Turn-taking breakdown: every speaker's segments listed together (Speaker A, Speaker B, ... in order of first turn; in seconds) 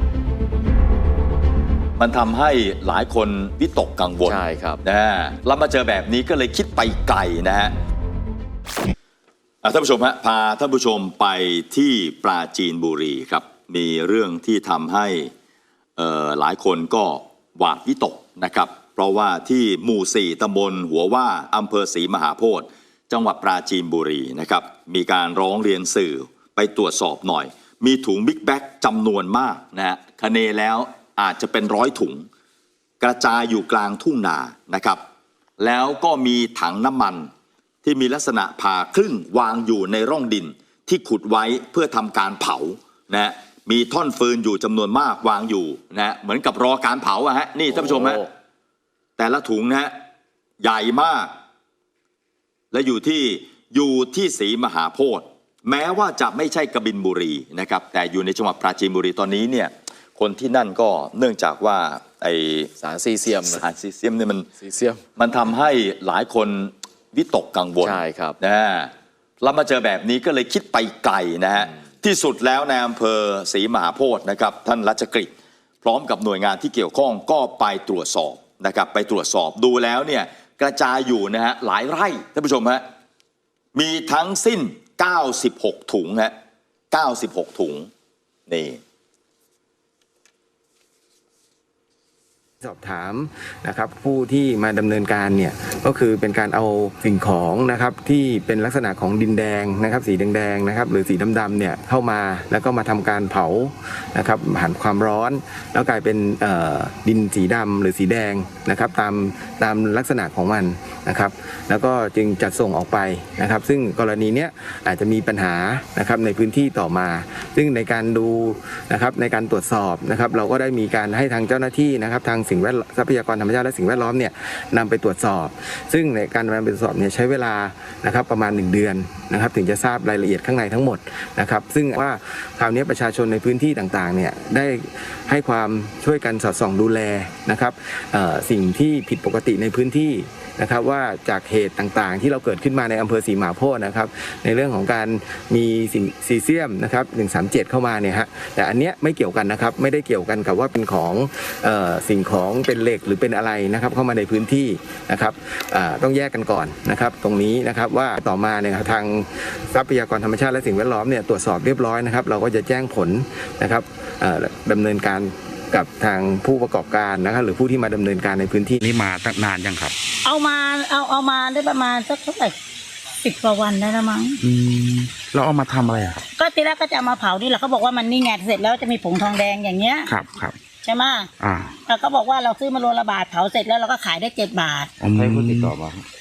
Speaker A: 2.0-7.8, 9.6-15.3, 16.0-32.3, 33.0-35.0, 35.6-37.3, 37.8-48.2, 49.2-49.9, 50.6-51.3, 52.7-62.7, 63.4-64.5, 65.2-75.3, 75.8-82.8, 83.8-86.3, 86.9-87.9, 88.5-88.8
Speaker B: 4.2-4.8, 47.7-48.2, 62.8-63.6, 64.6-65.0, 67.8-68.4
Speaker C: 92.6-168.8
Speaker D: 168.8-169.9, 174.4-176.2, 180.1-180.6, 181.4-181.8, 185.0-186.1
Speaker E: 170.2-172.6, 173.2-174.4, 176.4-180.1, 180.8-181.3, 181.9-184.9